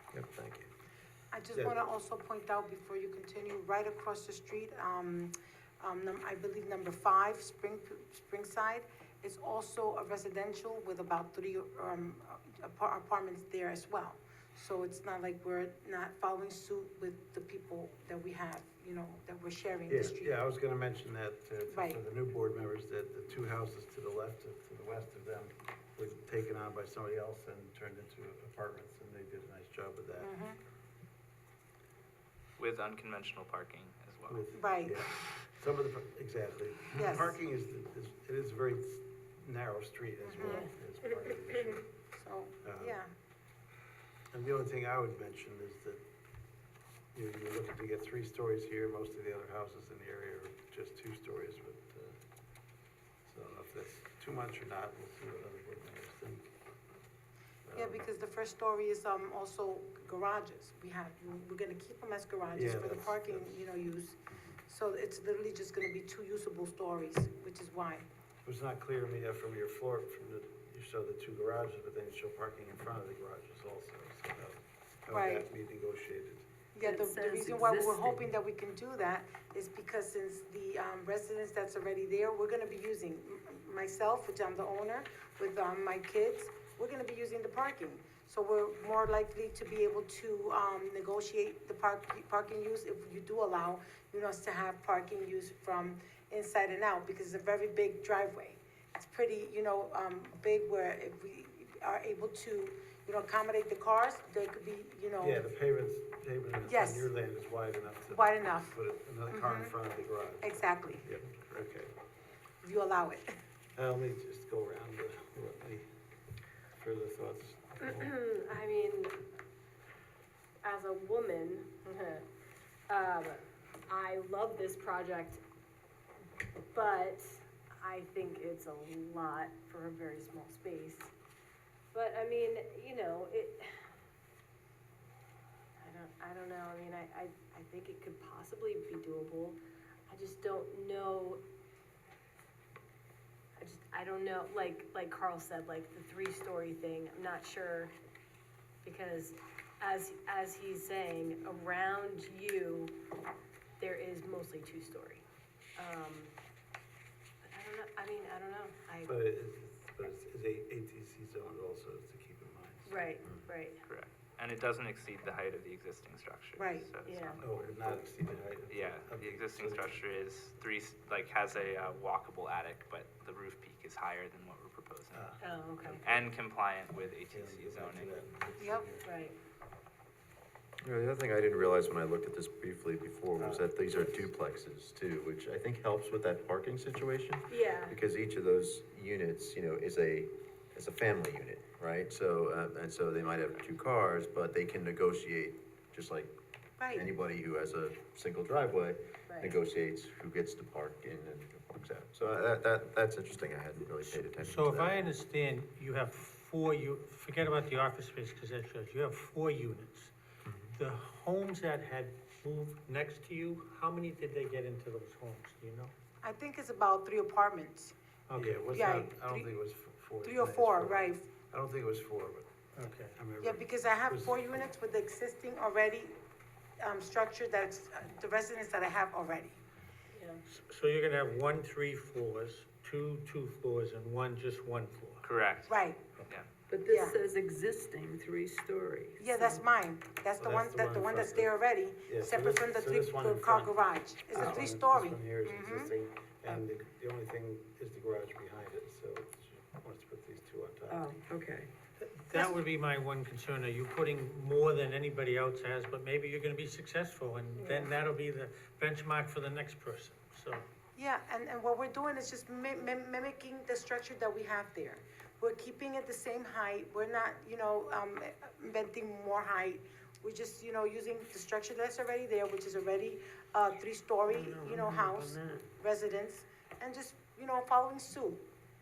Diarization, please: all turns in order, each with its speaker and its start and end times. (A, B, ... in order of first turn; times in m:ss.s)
0:00.1-0:00.7 A
0:01.3-0:20.4 B
0:01.5-0:01.8 C
0:19.9-0:30.3 C
0:21.7-0:22.0 B
0:30.2-0:30.6 B
0:32.6-0:34.5 D
0:34.3-0:41.8 C
0:34.5-0:35.0 B
0:36.9-0:37.4 B
0:40.2-0:40.7 B
0:40.4-0:41.4 E
0:41.5-0:43.1 B
0:42.6-0:43.0 C
0:44.3-0:46.0 C
0:47.2-0:52.2 C
0:53.3-0:56.5 C
0:57.7-0:58.0 C
0:57.7-1:08.1 B
1:02.5-1:03.7 C
1:08.4-1:16.5 C
1:15.1-1:15.5 B
1:16.8-1:45.5 B
1:16.8-1:18.2 F
1:45.2-1:51.9 C
1:46.6-1:47.1 B
1:48.1-1:48.8 B
1:49.3-1:49.8 B
1:50.4-1:51.1 B
1:52.6-1:53.4 B
1:53.8-1:55.9 C
1:56.8-1:58.1 C
1:57.8-1:59.2 E
2:00.6-2:02.2 E
2:02.9-2:05.4 E
2:06.7-2:11.1 E
2:11.9-2:13.7 E
2:15.8-2:21.4 E
2:23.6-2:27.9 E
2:28.8-2:33.0 E
2:33.8-2:35.2 E
2:35.8-2:36.3 E
2:37.4-2:39.2 E
2:39.0-2:43.0 C
2:42.8-2:43.8 E
2:43.9-2:48.0 D
2:46.6-2:46.9 B
2:47.0-2:47.4 E
2:47.4-2:50.0 C
2:48.7-2:55.3 D
2:55.1-2:56.0 C
2:55.4-2:56.2 E
2:56.0-2:58.2 D
2:57.3-2:59.1 C
2:58.6-2:58.9 B
2:59.0-2:59.4 E
3:00.8-3:16.3 A
3:03.4-3:04.3 C
3:07.5-3:08.0 E
3:16.8-3:17.1 B
3:16.9-3:25.1 A
3:19.3-3:19.6 E
3:24.1-3:30.1 G
3:30.7-3:35.9 G
3:36.2-3:37.9 B
3:38.3-3:38.7 G
3:38.4-3:44.7 C
3:38.7-3:39.5 B
3:40.2-3:41.3 B
3:42.7-3:43.2 G
3:43.4-3:46.2 B
3:46.8-3:49.6 B
3:50.1-3:50.4 E
3:50.5-3:55.3 G
3:55.2-3:56.5 D
3:55.7-3:56.0 B
3:56.7-3:59.6 F
3:56.9-3:57.2 B
3:59.2-4:05.9 B
4:00.4-4:11.1 C
4:04.4-4:04.6 F
4:10.9-4:11.7 F
4:12.0-4:20.7 G
4:17.6-4:17.9 F
4:21.0-4:38.4 B
4:34.7-4:35.6 F